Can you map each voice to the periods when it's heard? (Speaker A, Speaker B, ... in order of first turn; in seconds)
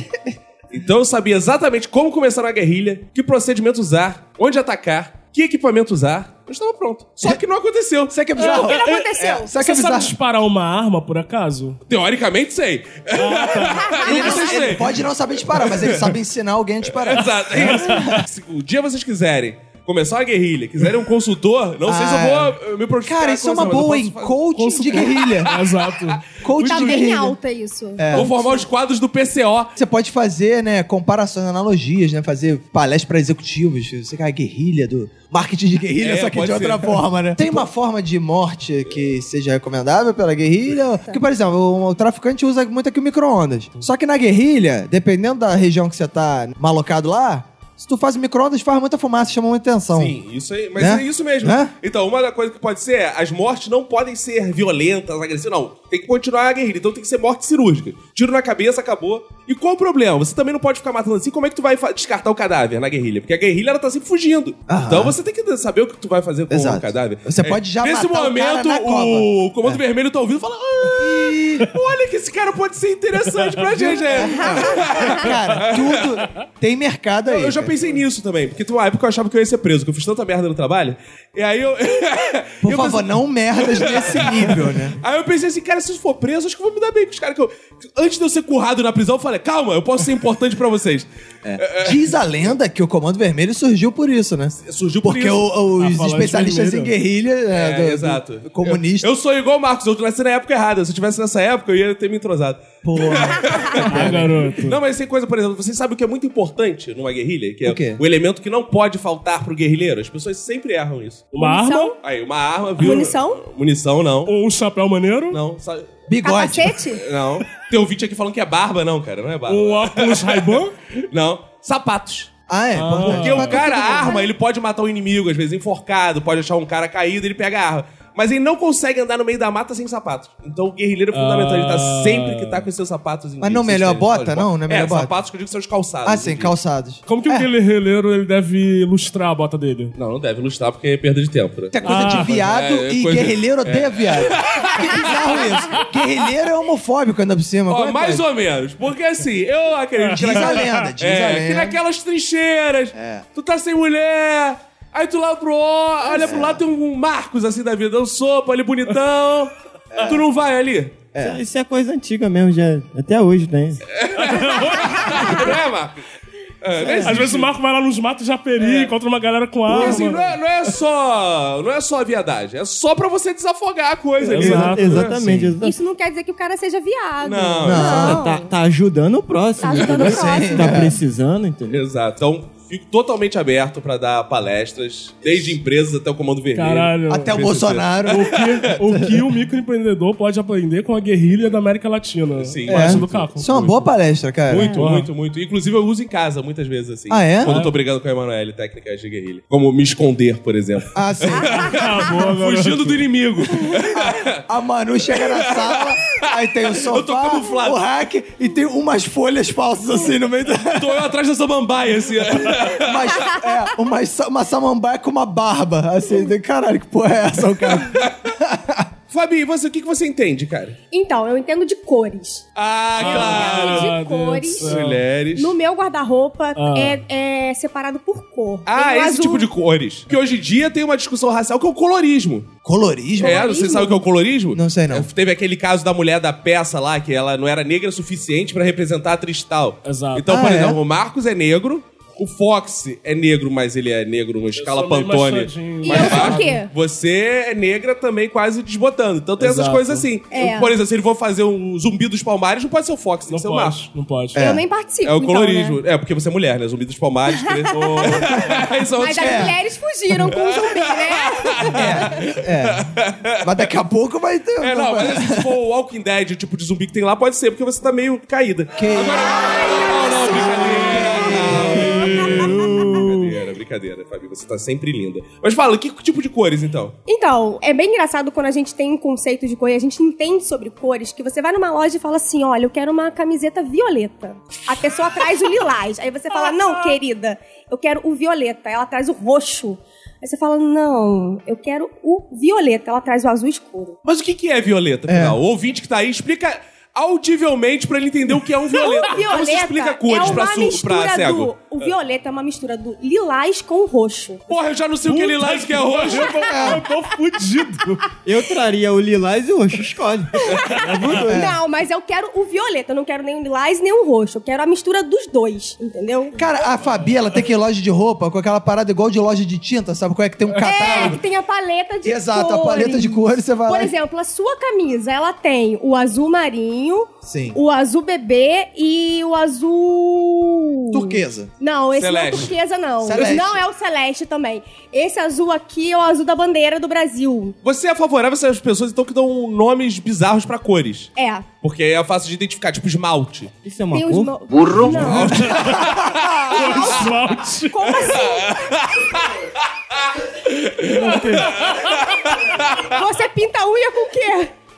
Speaker A: 0.7-8.2, 11.9-16.2, 16.9-26.9, 28.1-29.7, 36.0-37.6, 49.9-76.2, 77.3-92.1, 94.6-95.5, 97.5-111.3, 112.0-114.3, 115.3-115.9, 116.9-120.5, 121.1-122.3, 122.9-136.5, 139.9-145.7, 147.7-161.0, 163.9-166.0, 166.6-167.5, 168.6-168.9, 169.7-175.5, 177.2-178.0, 181.7-188.4, 192.4-193.3, 194.5-204.4, 205.1-206.2, 206.7-207.8, 210.7-213.1, 217.8-218.1, 219.1-220.8, 222.6-223.9, 224.6-225.5, 228.7-232.5, 233.2-253.8, 255.0-259.5, 260.3-263.7, 264.6-276.9, 294.0-301.5, 304.5-306.5, 332.0-332.5, 337.6-343.5, 344.8-346.8, 348.0-349.3, 350.4-352.8
Speaker B: 8.1-10.1, 14.0-18.2, 21.9-25.5, 26.4-27.4, 28.0-28.3, 29.8-50.1, 50.8-51.7, 64.7-65.1, 66.5-69.8, 71.0-71.7, 73.8-77.7, 82.6-85.0, 91.4-99.1, 102.8-104.4, 107.6-108.0, 116.1-116.8, 122.5-123.6, 133.4-135.1, 136.0-137.5, 141.7-148.2, 150.1-151.8, 152.9-153.2, 156.1-156.6, 159.9-160.2, 161.1-161.4, 177.6-178.2, 179.9-181.0, 187.1-189.2, 192.7-194.8, 197.1-197.5, 200.9-201.8, 203.9-211.0, 212.7-218.9, 232.6-233.4, 234.5-235.1, 240.3-240.8, 254.3-254.6, 259.2-259.5, 261.7-262.9, 263.4-265.5, 268.8-269.4, 270.8-271.9, 295.1-295.4, 306.4-306.8, 311.3-311.6, 316.4-321.2, 322.0-323.9, 327.2-327.6, 330.9-331.5, 333.0-333.6, 345.3-346.4
Speaker C: 8.3-9.5, 13.8-14.6, 26.6-28.6, 74.5-74.8, 111.4-112.0, 112.8-113.4, 116.2-117.0, 123.5-124.3, 175.6-178.5, 179.6-180.8, 201.4-201.7, 220.9-222.4, 223.0-224.7, 225.3-229.5, 233.2-234.0, 245.8-246.7, 250.3-250.7, 254.3-255.8, 257.4-258.2, 259.0-262.1, 269.2-272.8, 277.1-294.0, 298.7-304.5, 310.5-316.4, 320.6-337.6, 341.1-341.4, 343.9-345.6, 346.5-348.6, 352.8-354.5
Speaker D: 8.4-9.0, 9.6-11.8, 13.2-14.0, 17.6-18.0, 24.5-26.2, 95.8-96.9, 103.9-104.8, 111.3-111.9, 114.2-115.4, 119.5-120.7, 122.7-123.6, 131.1-132.6, 137.1-139.9, 141.8-142.4, 150.0-150.8, 164.2-165.4, 167.0-170.3, 174.2-175.1, 186.5-187.4, 188.1-193.9, 194.7-195.1, 197.4-197.7, 201.6-203.0, 223.0-225.0, 226.6-227.0, 239.8-240.3, 244.6-246.6, 249.4-250.0, 253.3-254.4, 257.7-258.4, 271.7-273.2, 305.0-308.0, 310.8-311.2, 345.3-345.9, 346.5-347.9
Speaker E: 161.2-163.8, 169.7-170.1, 174.3-175.8, 177.8-181.8, 308.2-311.5, 343.6-345.3, 350.9-351.6